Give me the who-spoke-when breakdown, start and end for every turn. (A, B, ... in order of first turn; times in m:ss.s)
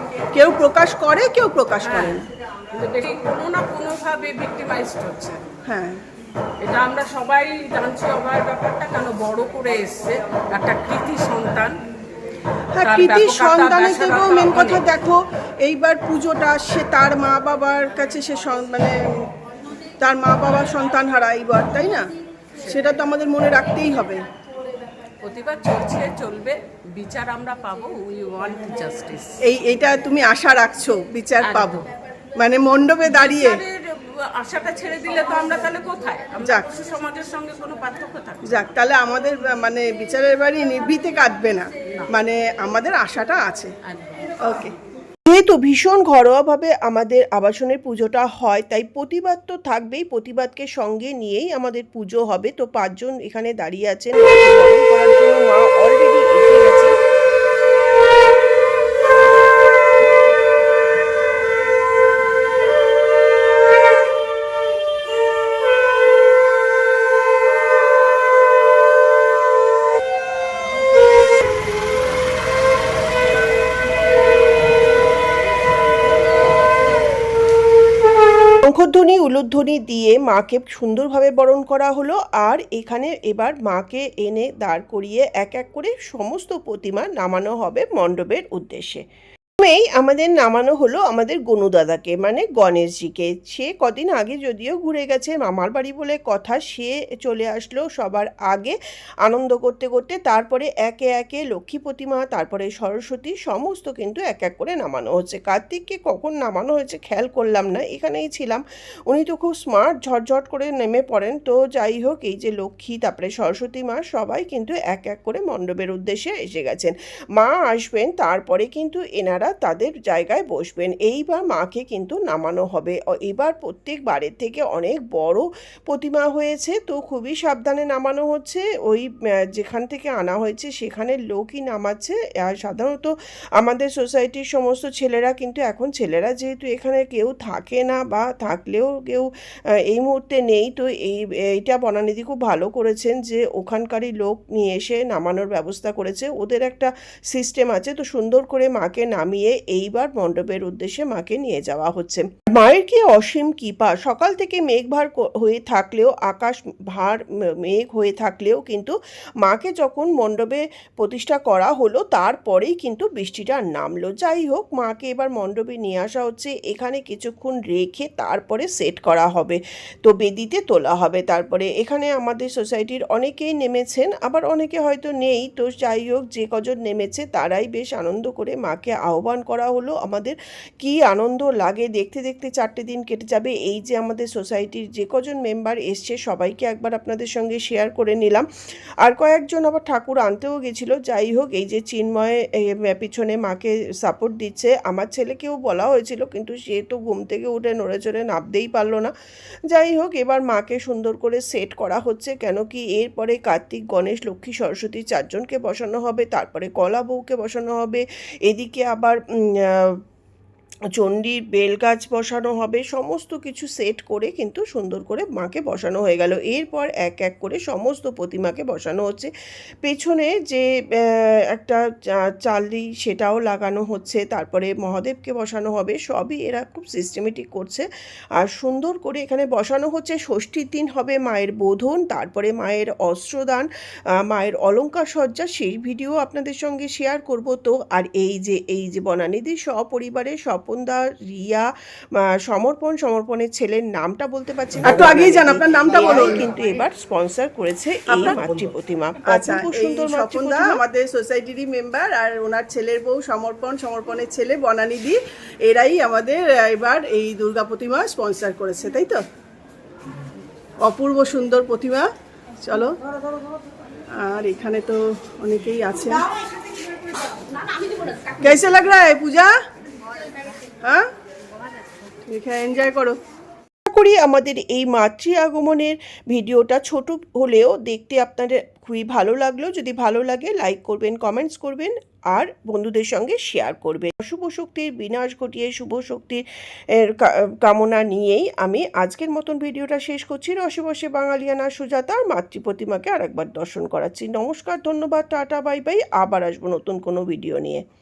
0:00.3-0:02.3 A
0:01.8-0:05.4 B
0:05.6-0:06.0 A
0:06.6-0:11.8 B
0:12.7-0:19.3 A
0:12.8-0:14.8 B
0:20.0-0:22.1 A
0:22.6-0:24.2 A
0:25.2-0:29.3 B
0:29.4-0:33.6 A
0:31.4-0:31.9 B
0:33.1-0:38.6 B
0:36.4-0:36.7 A
0:38.4-0:43.7 A
0:43.9-0:44.3 B
0:44.4-0:44.8 A
0:45.3-0:57.0 C
1:18.6-1:29.0 C
1:29.6-2:19.3 C
2:19.9-3:08.5 C
3:09.0-3:19.1 C
3:19.7-3:30.0 C
3:31.0-3:39.3 C
3:39.8-3:47.9 C
3:48.4-3:53.7 C
3:54.3-4:01.7 C
4:02.3-4:10.8 C
4:04.8-4:06.5 A
4:08.1-4:08.4 A
4:09.2-4:19.2 A
4:20.8-4:22.1 A
4:22.6-4:23.0 A
4:24.1-4:26.3 A
4:28.3-4:29.6 A
4:30.8-4:31.1 A
4:32.3-4:33.2 A
4:33.9-4:46.4 C
4:47.0-4:57.8 C